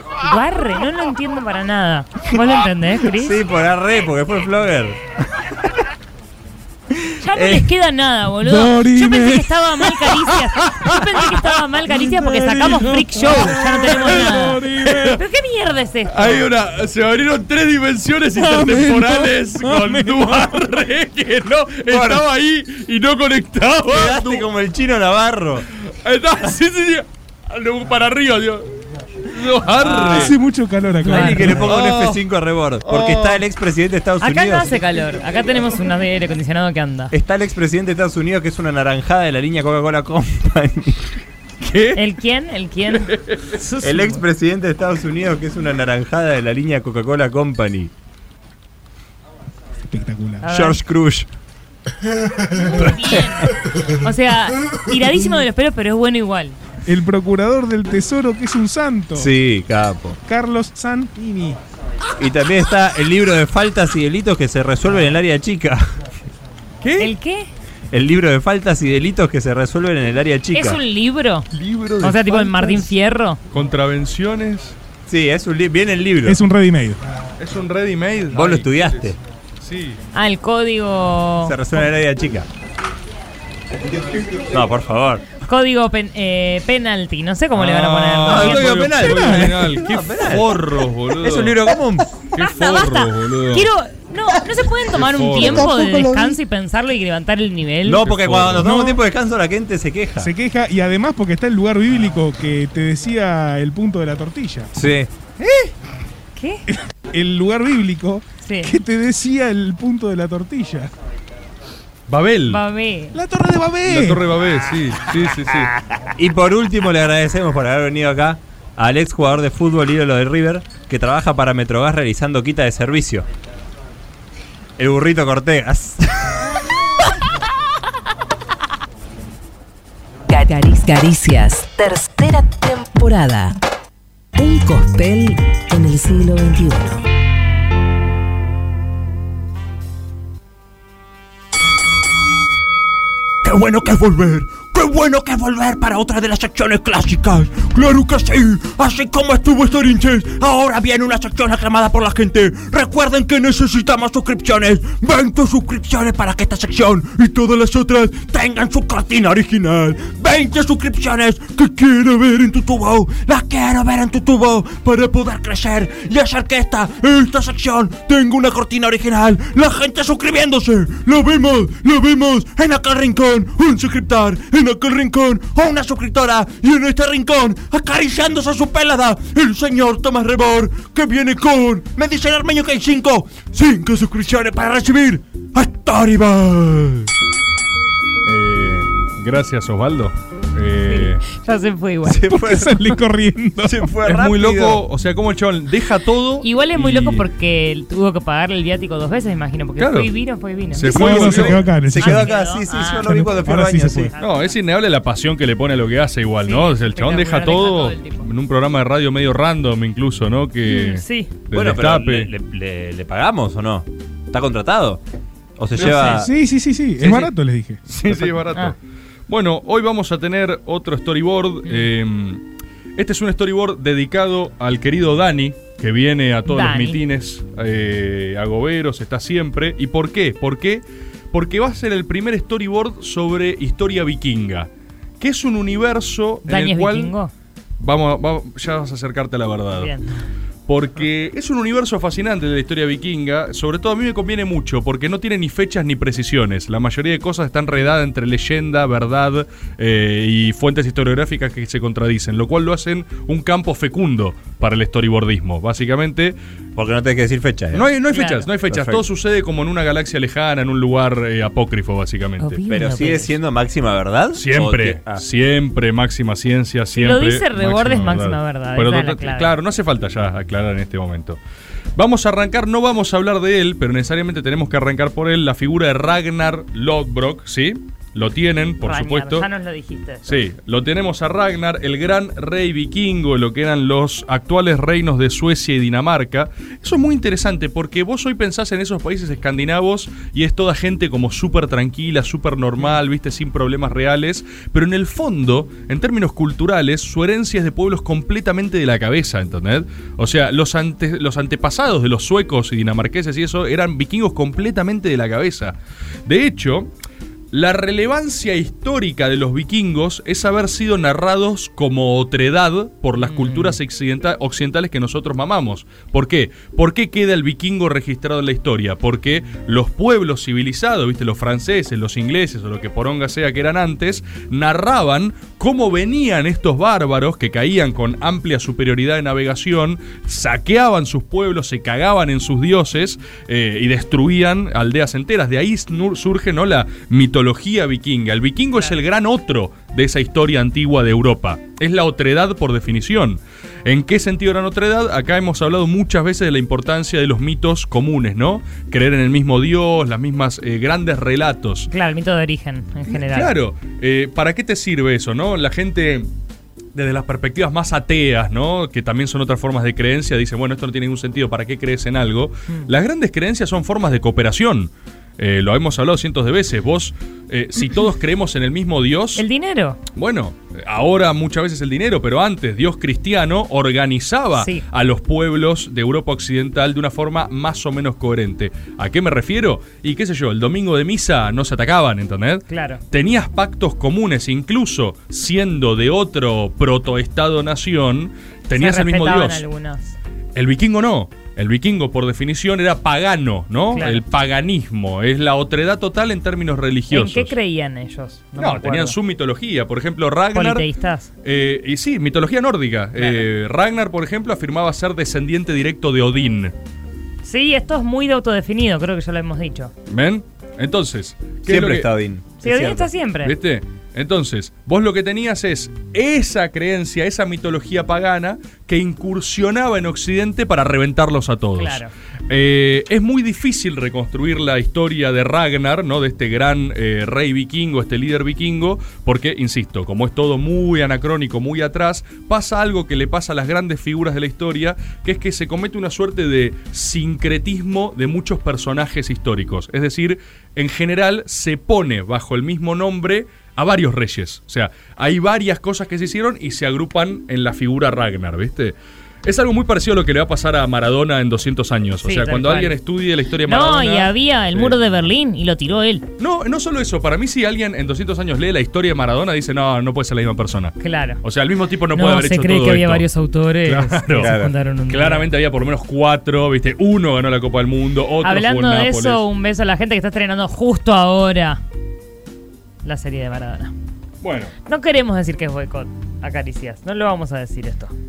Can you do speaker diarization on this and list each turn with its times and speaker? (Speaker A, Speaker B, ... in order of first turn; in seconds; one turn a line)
Speaker A: 0.2-3.4
Speaker B: 3.1-5.0
Speaker A: 7.2-16.4
Speaker B: 7.3-7.6
Speaker C: 8.4-9.6
Speaker C: 11.9-15.2
Speaker D: 14.8-15.2
Speaker D: 16.1-24.5
Speaker C: 18.3-20.6
Speaker B: 21.9-22.2
Speaker B: 23.9-25.6
Speaker D: 26.0-28.6
Speaker D: 29.3-30.3
Speaker B: 29.8-30.3
Speaker C: 29.9-31.8
Speaker B: 31.1-34.7
Speaker A: 31.1-31.5
Speaker D: 31.5-32.2
Speaker D: 32.8-33.4
Speaker A: 34.2-37.1
Speaker B: 37.1-41.0
Speaker D: 41.6-42.0
Speaker A: 42.0-44.2
Speaker D: 43.1-43.4
Speaker B: 43.8-47.9
Speaker C: 49.9-50.5
Speaker A: 50.4-50.8
Speaker B: 50.5-51.3
Speaker A: 52.5-53.5
Speaker B: 52.8-53.2
Speaker A: 54.0-56.6
Speaker C: 56.9-59.3
Speaker B: 59.1-60.2
Speaker C: 60.2-61.6
Speaker B: 62.2-65.9
Speaker D: 66.8-67.1
Speaker A: 67.0-67.5
Speaker B: 67.9-70.8
Speaker A: 70.5-71.5
Speaker D: 71.5-72.8
Speaker A: 72.0-73.4
Speaker D: 73.5-74.8
Speaker B: 75.1-76.4
Speaker C: 76.2-77.0
Speaker D: 77.4-80.0
Speaker B: 78.3-79.2
Speaker A: 80.1-81.5
Speaker B: 81.4-82.5
Speaker B: 84.5-85.2
Speaker A: 85.4-88.8
Speaker D: 87.5-91.6
Speaker B: 88.2-90.5
Speaker C: 89.0-89.5
Speaker B: 91.2-92.1
Speaker D: 92.3-93.7
Speaker A: 92.4-98.0
Speaker D: 94.9-95.7
Speaker B: 97.9-100.3
Speaker D: 98.0-98.7
Speaker C: 98.6-99.0
Speaker C: 100.2-104.7
Speaker B: 104.7-105.1
Speaker A: 106.3-106.6
Speaker C: 106.7-110.9
Speaker A: 108.4-108.7
Speaker D: 112.1-112.6
Speaker A: 112.5-113.2
Speaker C: 113.1-114.2
Speaker D: 113.8-115.7
Speaker B: 116.2-123.2
Speaker B: 124.8-126.0
Speaker E: 130.3-133.5
Speaker E: 134.4-137.0
Speaker F: 143.4-187.1
Speaker D: 188.2-191.2
Speaker A: 190.9-192.3
Speaker B: 192.1-192.8
Speaker C: 192.3-193.9
Speaker B: 193.7-194.8
Speaker D: 194.0-197.2
Speaker A: 196.4-201.2
Speaker D: 199.8-200.1
Speaker D: 200.7-201.6
Speaker C: 200.8-202.3
Speaker B: 200.9-204.1
Speaker A: 201.8-203.3
Speaker C: 203.0-204.1
Speaker A: 204.1-204.6
Speaker D: 204.2-212.3
Speaker A: 206.4-208.2
Speaker A: 210.6-211.3
Speaker B: 211.5-215.0
Speaker B: 215.6-216.3
Speaker D: 215.7-216.2
Speaker C: 215.8-218.3
Speaker D: 217.0-217.3
Speaker D: 217.9-218.8
Speaker D: 219.3-222.4
Speaker D: 223.0-234.7
Speaker A: 226.5-227.0
Speaker D: 235.2-237.1
Speaker A: 236.5-237.3
Speaker D: 237.8-239.9
Speaker A: 239.8-240.1
Speaker D: 240.7-256.4
Speaker B: 256.8-257.9
Speaker D: 257.7-262.6
Speaker A: 258.1-258.5
Speaker B: 258.7-259.0
Speaker A: 262.4-263.3
Speaker B: 262.7-265.2
Speaker D: 264.3-271.4
Speaker A: 266.9-269.5
Speaker D: 271.9-279.5
Speaker A: 278.8-280.4
Speaker D: 280.2-306.9
Speaker D: 307.5-351.9
Speaker A: 313.2-313.8
Speaker A: 351.9-353.5
Speaker D: 353.1-356.3
Speaker D: 356.9-369.4
Speaker A: 369.4-370.0
Speaker D: 370.1-389.6
Speaker A: 374.6-374.8
Speaker A: 382.7-383.0
Speaker A: 388.7-390.1
Speaker D: 390.5-397.5
Speaker A: 393.9-394.2
Speaker A: 397.1-399.1
Speaker D: 398.6-400.9
Speaker A: 400.5-401.3
Speaker D: 401.4-406.7
Speaker A: 403.1-403.5
Speaker A: 407.4-409.9
Speaker D: 410.1-412.1
Speaker B: 411.6-413.1
Speaker A: 412.6-413.5
Speaker D: 413.4-454.9
Speaker A: 421.8-422.1
Speaker A: 452.2-452.9
Speaker A: 453.6-456.2
Speaker D: 456.4-463.2
Speaker A: 461.0-461.4
Speaker A: 462.1-465.5
Speaker D: 463.8-469.4
Speaker B: 464.4-464.7
Speaker A: 468.4-471.8
Speaker A: 473.0-473.9
Speaker D: 474.4-474.7
Speaker A: 474.9-478.1